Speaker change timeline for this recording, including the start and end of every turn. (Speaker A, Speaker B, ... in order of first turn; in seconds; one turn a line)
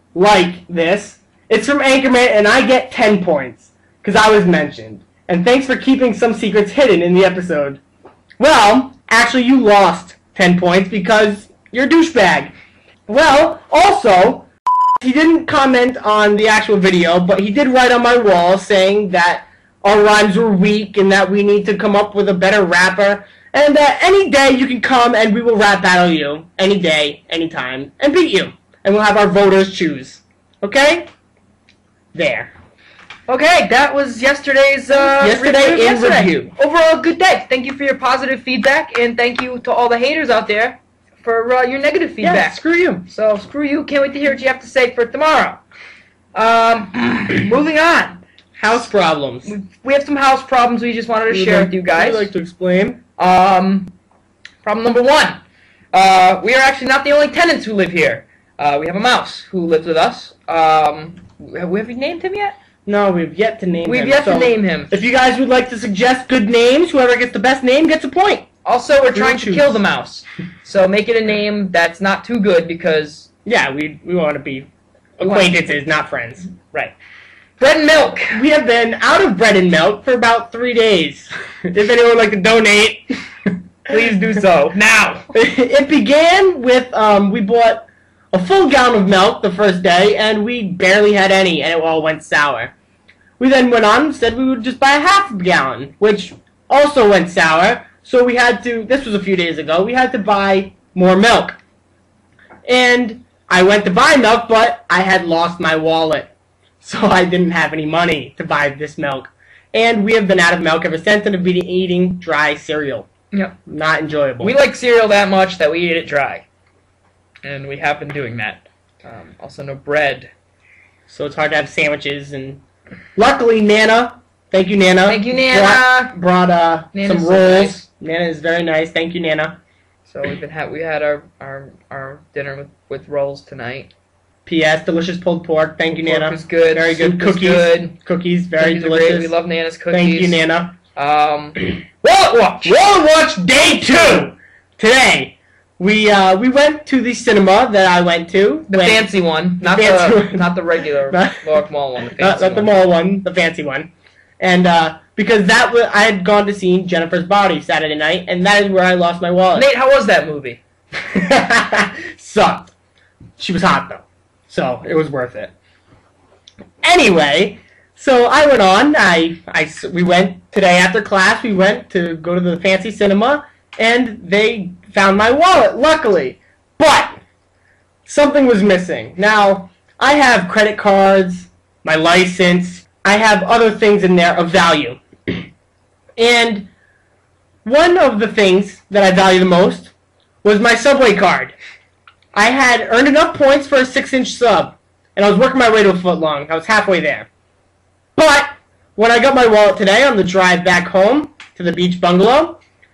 Speaker A: 0.1-7.8
Speaker A: 8.4-12.5
Speaker A: 13.1-14.5
Speaker A: 15.0-31.1
Speaker A: 32.1-32.5
Speaker B: 33.3-45.6
Speaker A: 34.9-36.5
Speaker A: 42.2-43.0
Speaker B: 46.3-48.2
Speaker A: 48.6-49.5
Speaker B: 49.4-52.3
Speaker A: 51.3-53.0
Speaker B: 53.2-53.9
Speaker B: 54.6-55.4
Speaker B: 55.9-62.5
Speaker A: 62.9-68.5
Speaker B: 63.8-64.9
Speaker B: 68.6-73.3
Speaker A: 69.1-69.8
Speaker A: 73.5-76.9
Speaker B: 75.2-75.7
Speaker B: 77.6-78.5
Speaker A: 78.3-83.1
Speaker A: 83.9-84.4
Speaker B: 83.9-85.3
Speaker A: 85.3-92.7
Speaker A: 93.4-101.6
Speaker A: 102.7-106.3
Speaker A: 106.8-113.1
Speaker B: 113.3-113.6
Speaker A: 113.7-114.5
Speaker B: 114.4-116.4
Speaker B: 117.4-120.3
Speaker A: 121.1-122.6
Speaker A: 123.2-129.6
Speaker B: 125.0-126.1
Speaker B: 126.9-127.8
Speaker B: 130.1-133.9
Speaker A: 134.4-139.3
Speaker B: 136.1-137.9
Speaker B: 138.6-140.4
Speaker A: 139.9-140.7
Speaker B: 140.9-142.7
Speaker A: 142.6-149.1
Speaker B: 148.7-152.7
Speaker A: 149.6-150.5
Speaker A: 151.1-151.4
Speaker A: 152.0-159.7
Speaker B: 159.5-160.6
Speaker A: 161.1-162.7
Speaker A: 163.4-165.5
Speaker A: 166.8-177.2
Speaker A: 178.1-185.4
Speaker A: 186.2-186.7
Speaker A: 187.6-189.9
Speaker A: 190.4-191.5
Speaker A: 192.3-197.3
Speaker A: 198.2-202.6